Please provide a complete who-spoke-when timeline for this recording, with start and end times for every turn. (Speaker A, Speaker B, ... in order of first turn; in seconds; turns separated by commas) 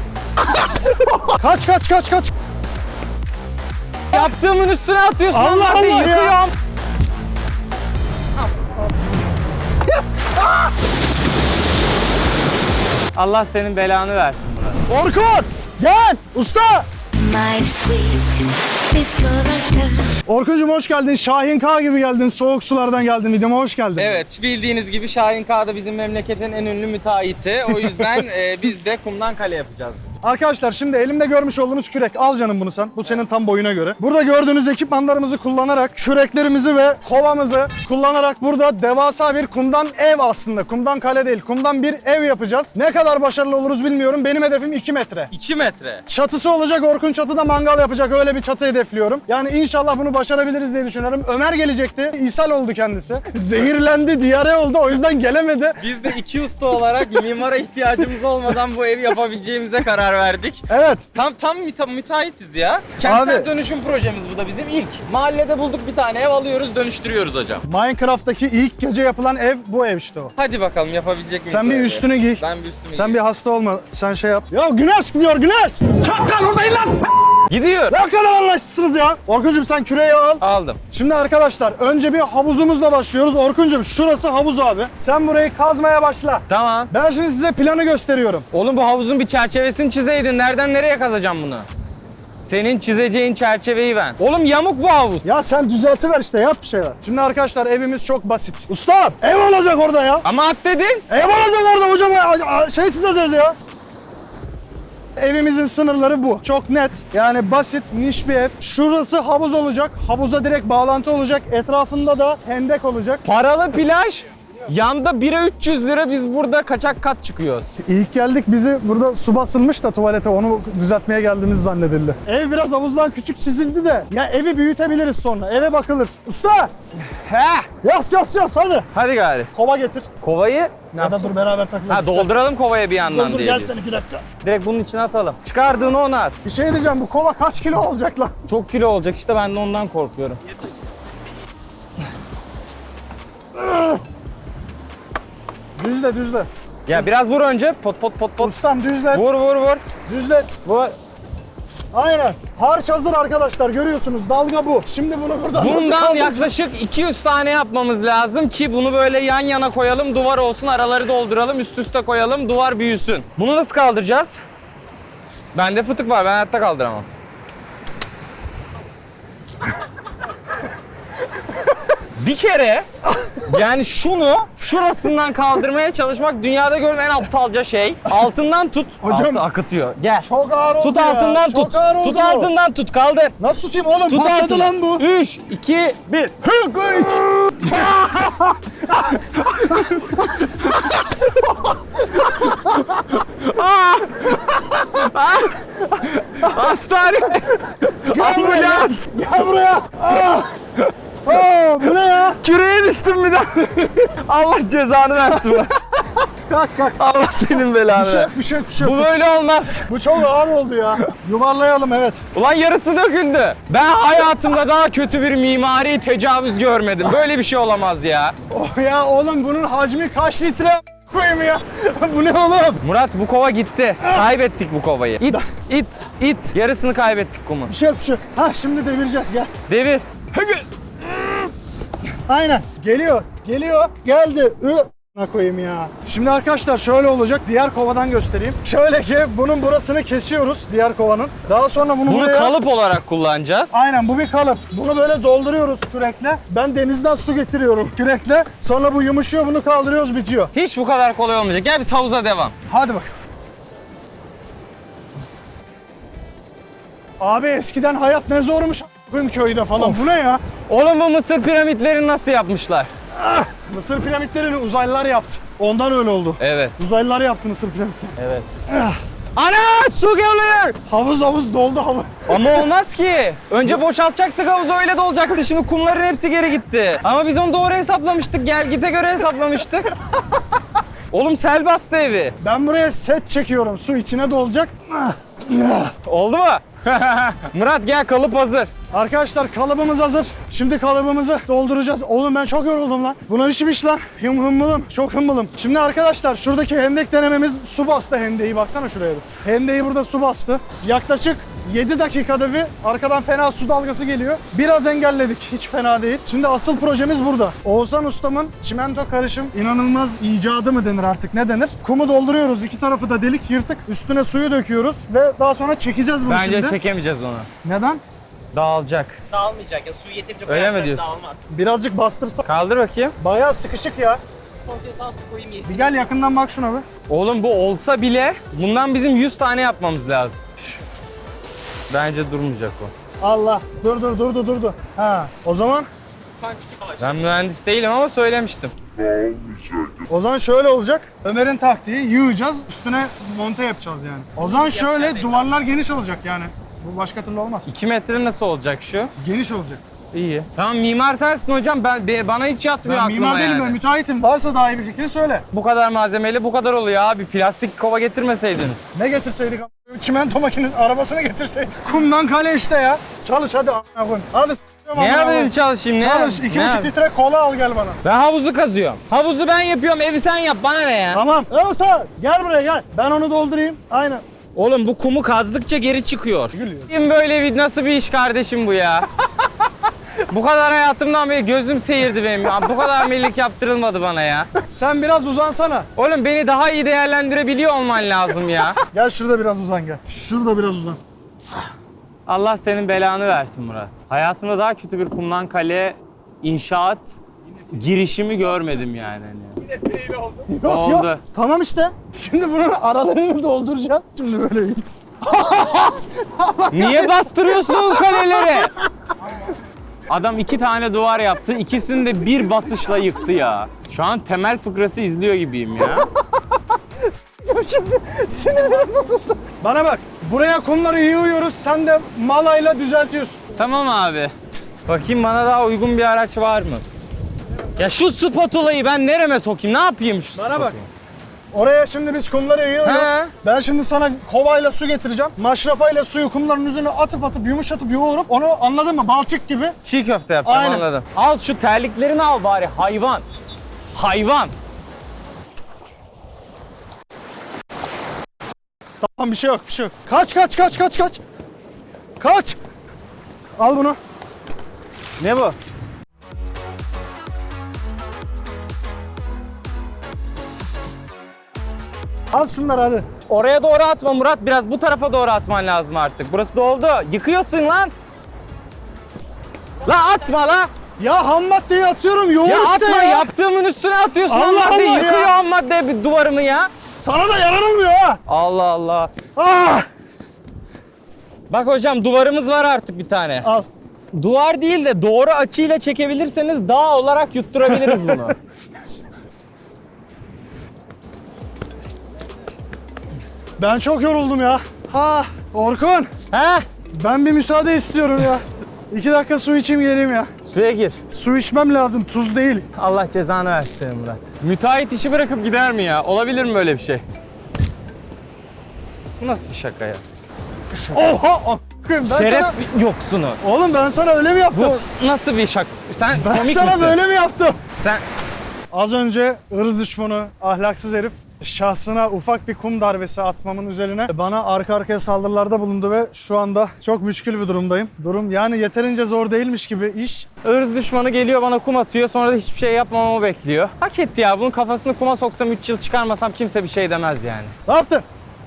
Speaker A: 1.3-2.3, Speaker B: 4.1-6.5, Speaker A: 5.3-6.4, Speaker B: 13.1-14.8, Speaker A: 14.9-16.9, Speaker C: 17.1-20.1, Speaker A: 20.3-24.2, Speaker B: 23.9-30.0, Speaker A: 30.2-45.3, Speaker B: 45.3-46.0, Speaker A: 46.1-55.8, Speaker B: 55.8-67.6, Speaker A: 60.7-61.1, Speaker A: 63.0-63.5, Speaker A: 67.6-70.3, Speaker B: 70.4-73.2, Speaker A: 71.5-77.0, Speaker B: 77.5-78.0, Speaker A: 77.9-88.5, Speaker B: 80.4-80.8, Speaker B: 86.5-86.9, Speaker B: 88.5-91.7, Speaker B: 92.4-95.2, Speaker A: 95.2-100.2, Speaker B: 100.2-101.0, Speaker A: 101.1-103.5, Speaker A: 105.2-113.2, Speaker B: 113.2-117.8, Speaker A: 117.8-126.7, Speaker B: 127.0-127.7, Speaker A: 127.8-128.9, Speaker B: 128.9-129.5, Speaker A: 129.5-130.1, Speaker B: 130.2-131.3, Speaker A: 130.9-132.3, Speaker B: 131.9-133.8, Speaker A: 133.1-134.2, Speaker B: 134.4-136.4, Speaker A: 136.4-138.3, Speaker B: 138.5-140.4, Speaker A: 143.6-144.0, Speaker A: 145.8-147.1, Speaker B: 146.8-148.6, Speaker A: 148.4-149.2, Speaker B: 149.1-149.8, Speaker A: 150.1-150.6, Speaker B: 150.6-150.9, Speaker A: 151.9-156.5, Speaker B: 155.5-164.4, Speaker B: 165.5-167.1, Speaker B: 172.1-172.9, Speaker A: 173.2-173.5, Speaker B: 173.4-180.3, Speaker A: 179.0-179.4, Speaker A: 180.2-182.5, Speaker B: 180.8-183.3, Speaker A: 183.4-185.0, Speaker B: 184.1-187.9, Speaker A: 187.6-190.4, Speaker B: 189.6-190.1, Speaker A: 192.1-192.8, Speaker B: 192.6-199.1, Speaker A: 197.5-200.6, Speaker A: 201.2-202.4, Speaker B: 202.4-205.8, Speaker A: 206.5-207.0, Speaker B: 207.0-209.9, Speaker A: 207.9-209.1, Speaker A: 209.8-212.2, Speaker B: 212.3-218.3, Speaker A: 218.5-222.8, Speaker B: 222.8-227.7, Speaker A: 227.7-229.5, Speaker B: 229.7-230.6, Speaker A: 232.3-242.5, Speaker B: 242.1-243.7, Speaker A: 243.7-250.5, Speaker B: 250.5-252.5, Speaker A: 252.7-253.1, Speaker A: 257.2-260.4, Speaker B: 260.7-262.9, Speaker A: 263.1-268.1, Speaker B: 266.4-266.7, Speaker B: 268.2-268.6, Speaker A: 268.7-269.0, Speaker B: 269.4-270.8, Speaker A: 270.9-272.7, Speaker B: 272.3-279.9, Speaker B: 281.1-282.4, Speaker A: 282.4-285.9, Speaker B: 286.0-288.7, Speaker A: 288.9-316.8, Speaker B: 316.3-317.5, Speaker A: 317.6-318.0, Speaker B: 318.5-319.2, Speaker D: 319.3-321.4, Speaker B: 320.4-321.1, Speaker A: 321.5-322.5, Speaker B: 322.4-323.1, Speaker A: 323.2-324.2, Speaker D: 324.6-325.9, Speaker A: 325.6-326.9, Speaker B: 327.1-330.4, Speaker B: 331.9-332.9, Speaker A: 333.2-335.9, Speaker D: 336.4-337.3, Speaker B: 337.0-338.7, Speaker A: 340.1-347.7, Speaker D: 344.4-345.5, Speaker B: 347.7-349.1, Speaker A: 349.2-349.8, Speaker B: 350.1-353.8, Speaker A: 352.8-355.4, Speaker B: 355.5-358.9, Speaker A: 358.9-368.0, Speaker B: 364.9-366.9, Speaker B: 368.0-371.2, Speaker A: 371.1-374.2, Speaker B: 374.6-379.1, Speaker A: 376.5-376.9, Speaker B: 380.3-384.5, Speaker A: 384.6-385.9, Speaker B: 385.9-388.8, Speaker A: 388.9-391.0, Speaker B: 392.3-397.1, Speaker B: 397.7-399.6, Speaker D: 399.9-400.2, Speaker A: 400.4-408.7, Speaker B: 400.6-401.2, Speaker B: 406.7-408.7, Speaker B: 410.1-416.1, Speaker A: 417.4-423.4, Speaker B: 418.1-419.0, Speaker B: 423.6-424.3, Speaker B: 424.9-426.8, Speaker B: 427.8-430.9, Speaker A: 430.3-430.8, Speaker A: 431.5-439.8, Speaker B: 432.8-433.3, Speaker B: 439.8-443.2, Speaker A: 440.4-440.9, Speaker B: 443.9-444.5, Speaker A: 449.0-451.2, Speaker A: 452.2-452.6, Speaker A: 453.6-454.0, Speaker B: 455.2-455.6, Speaker A: 462.3-463.1, Speaker B: 463.3-467.9, Speaker B: 469.8-470.7, Speaker A: 471.0-473.3, Speaker B: 472.4-476.7, Speaker A: 474.3-475.3, Speaker A: 477.0-478.2, Speaker B: 478.3-479.1, Speaker A: 479.4-479.9, Speaker B: 481.5-483.5, Speaker B: 484.1-488.4, Speaker A: 487.7-488.3, Speaker A: 493.6-496.1, Speaker B: 496.3-496.6, Speaker A: 496.9-500.3, Speaker B: 500.5-501.0, Speaker A: 501.1-502.7, Speaker B: 502.8-507.0, Speaker B: 509.2-510.0, Speaker A: 510.9-512.6, Speaker B: 512.0-513.4, Speaker A: 513.4-514.8, Speaker B: 514.5-517.0, Speaker A: 516.1-517.6, Speaker A: 518.7-530.3, Speaker B: 530.4-537.5, Speaker A: 537.7-538.0